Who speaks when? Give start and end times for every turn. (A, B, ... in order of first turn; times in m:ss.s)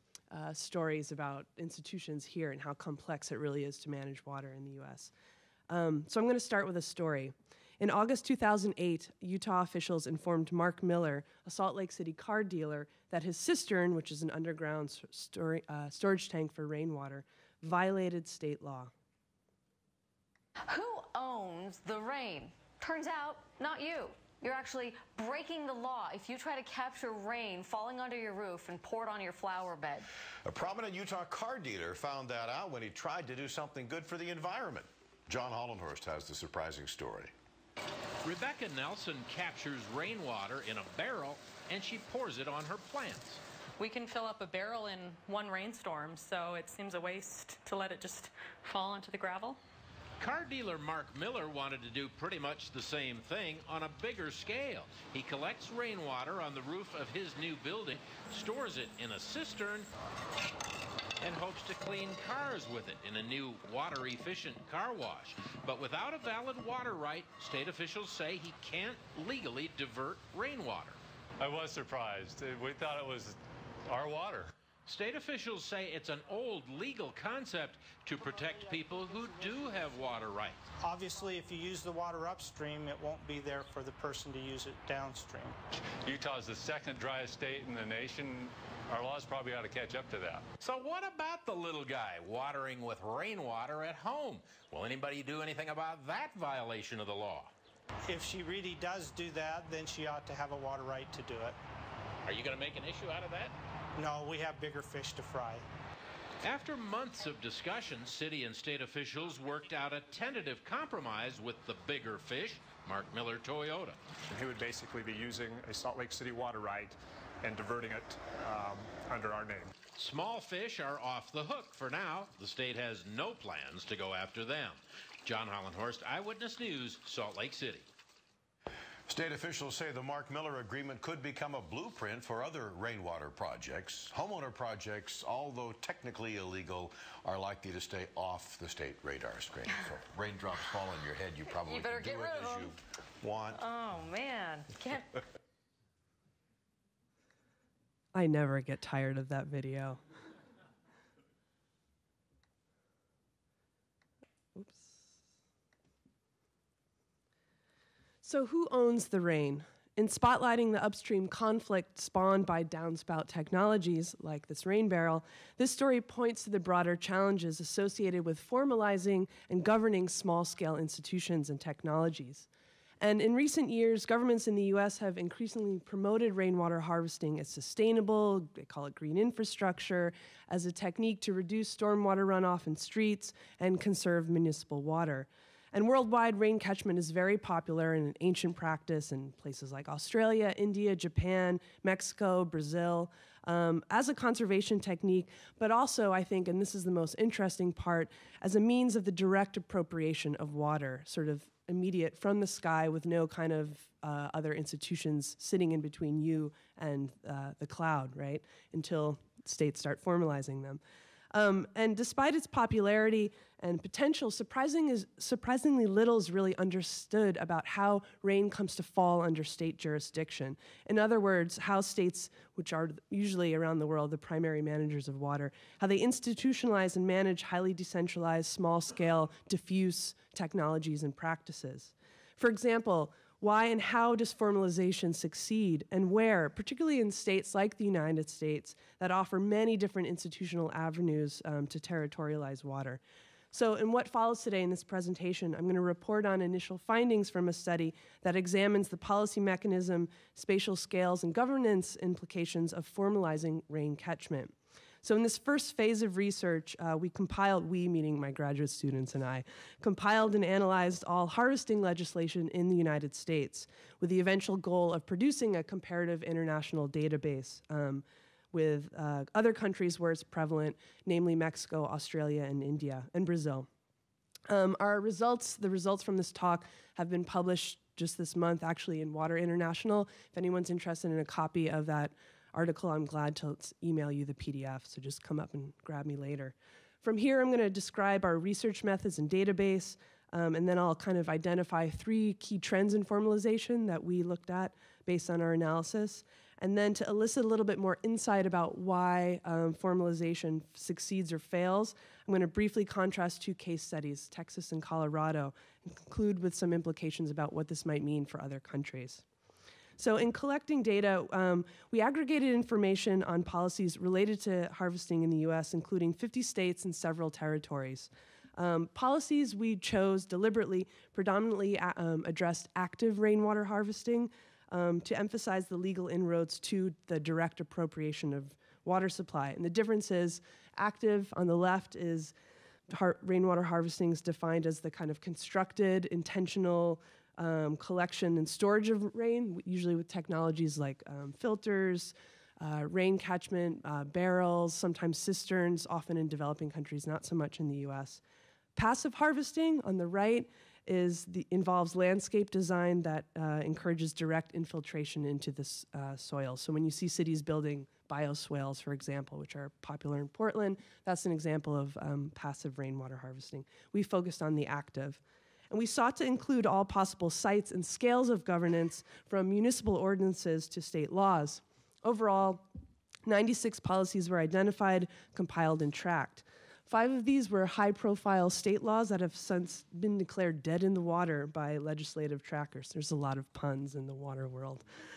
0:00.3-0:05.1 A
0:05.7-0:18.9 A
0:20.7-0:30.0 B
0:30.4-0:37.3 C
0:38.2-0:43.4 D
0:43.8-0:49.6 E
0:50.2-0:59.9 D
1:01.2-1:11.0 D
1:11.4-1:14.5 F
1:14.8-1:20.7 D
1:18.2-1:20.0 G
1:20.8-1:25.6 G
1:26.0-1:30.5 F
1:30.6-1:37.5 D
1:38.1-1:41.6 G
1:42.2-1:43.5 D
1:44.0-1:45.6 G
1:46.4-1:54.0 D
1:54.3-1:59.7 H
2:00.0-2:07.9 D
2:09.1-2:23.6 C
2:21.7-2:22.6 B
2:23.6-2:25.1 B
2:28.2-2:30.0 A
2:34.6-2:35.0 A
2:38.2-2:52.5 A
2:53.0-3:30.8 A
3:31.3-4:03.0 A
4:03.5-4:33.7 A
4:34.5-5:09.2 A
5:10.0-5:32.3 A
5:32.9-5:48.2 A
5:48.8-6:12.7 A
6:13.3-6:24.8 A